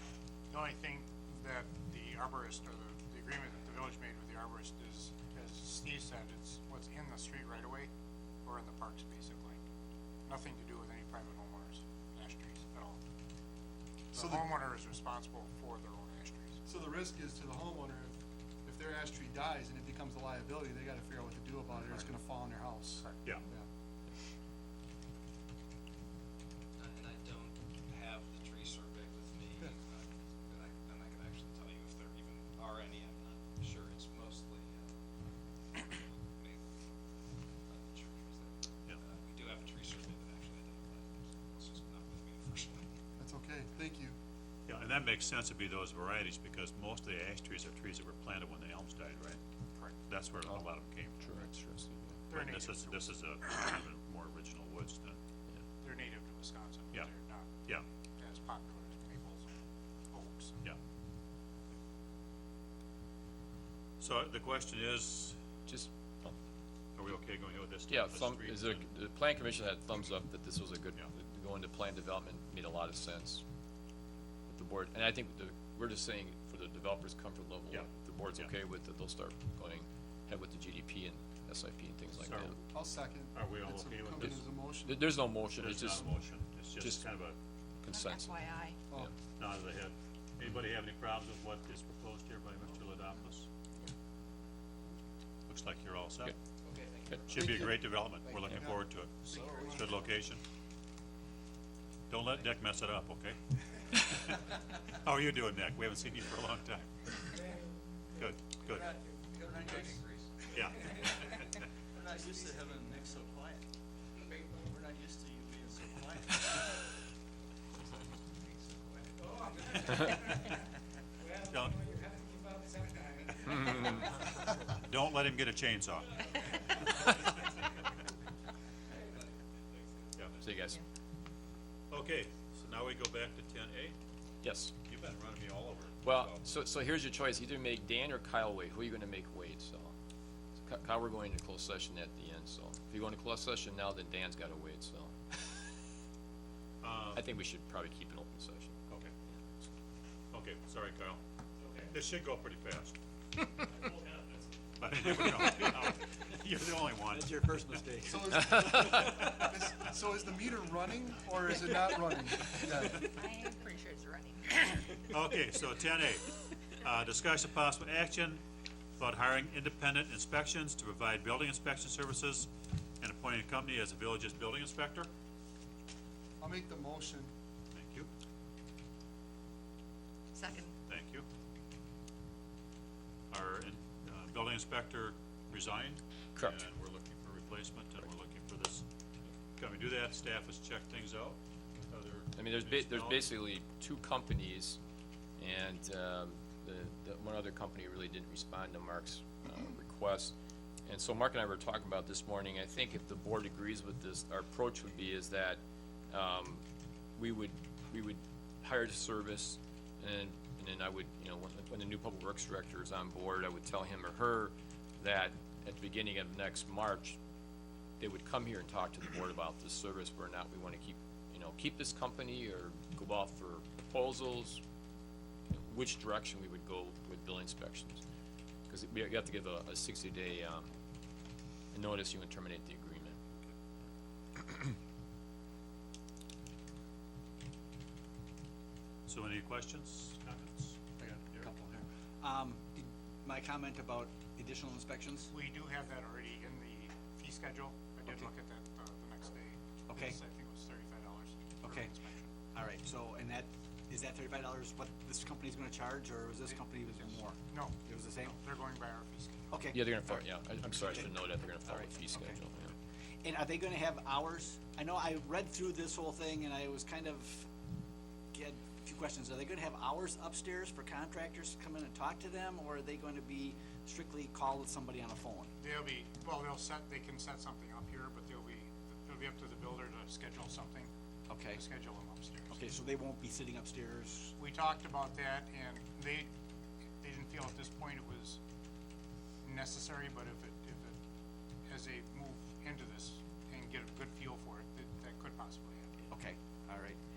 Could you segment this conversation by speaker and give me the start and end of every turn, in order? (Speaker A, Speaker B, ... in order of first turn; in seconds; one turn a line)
Speaker A: 0.5-7.9
Speaker A: 8.4-9.6
Speaker A: 10.2-13.0
Speaker A: 14.1-16.6
Speaker B: 14.1-14.5
Speaker B: 16.6-23.7
Speaker C: 26.8-34.9
Speaker C: 35.7-36.7
Speaker C: 37.7-42.9
Speaker B: 43.2-44.2
Speaker D: 44.7-49.4
Speaker D: 50.1-51.3
Speaker E: 51.2-52.2
Speaker A: 52.3-53.1
Speaker D: 52.3-55.2
Speaker A: 55.8-57.5
Speaker A: 58.2-59.6
Speaker A: 60.1-60.6
Speaker D: 64.0-65.4
Speaker E: 65.7-66.3
Speaker D: 67.0-68.8
Speaker E: 67.9-73.4
Speaker E: 74.5-82.6
Speaker D: 77.7-78.5
Speaker D: 82.2-82.5
Speaker B: 82.7-85.2
Speaker D: 83.3-84.4
Speaker E: 84.2-86.2
Speaker D: 85.6-87.4
Speaker E: 86.8-87.0
Speaker E: 87.8-89.1
Speaker F: 87.9-88.8
Speaker D: 89.4-93.5
Speaker D: 95.5-96.3
Speaker C: 96.7-97.3
Speaker D: 97.3-100.4
Speaker B: 97.3-97.8
Speaker B: 98.5-100.0
Speaker D: 102.1-103.4
Speaker D: 103.9-107.4
Speaker D: 108.2-109.0
Speaker C: 109.2-110.3
Speaker D: 110.5-111.5
Speaker C: 112.0-113.6
Speaker D: 121.5-121.8
Speaker E: 123.4-124.1
Speaker D: 124.8-126.2
Speaker D: 130.1-130.4
Speaker E: 130.4-130.8
Speaker D: 131.9-133.9
Speaker E: 134.4-134.7
Speaker D: 134.9-136.4
Speaker E: 136.0-139.9
Speaker E: 140.6-145.4
Speaker D: 146.8-147.2
Speaker E: 147.1-148.8
Speaker D: 150.3-151.2
Speaker D: 151.8-152.9
Speaker D: 153.6-157.8
Speaker G: 157.1-158.2
Speaker B: 158.0-163.2
Speaker E: 158.3-159.0
Speaker F: 163.0-165.0
Speaker D: 165.1-168.4
Speaker D: 169.0-172.5
Speaker D: 173.0-175.1
Speaker B: 176.4-177.3
Speaker D: 177.7-178.1
Speaker F: 180.3-180.8
Speaker D: 180.9-181.3
Speaker D: 183.3-188.8
Speaker E: 186.3-186.6
Speaker D: 189.6-193.3
Speaker E: 192.3-194.8
Speaker E: 195.4-200.3
Speaker E: 200.8-206.6
Speaker E: 207.2-217.2
Speaker E: 218.0-224.6
Speaker E: 225.5-228.0
Speaker E: 228.7-230.7
Speaker E: 231.7-233.2
Speaker E: 234.4-234.7
Speaker D: 239.1-240.8
Speaker G: 241.0-245.3
Speaker A: 245.3-252.3
Speaker G: 249.9-250.2
Speaker G: 251.6-251.9
Speaker G: 252.5-258.4
Speaker A: 256.5-259.6
Speaker G: 259.5-260.2
Speaker E: 259.7-262.7
Speaker G: 261.7-262.4
Speaker G: 263.2-267.5
Speaker G: 268.3-275.5
Speaker A: 275.6-280.9
Speaker G: 281.3-281.6
Speaker A: 281.5-282.6
Speaker G: 282.5-284.3
Speaker A: 284.4-286.3
Speaker A: 287.0-288.4
Speaker A: 289.4-291.0
Speaker A: 291.7-296.1
Speaker G: 296.1-297.0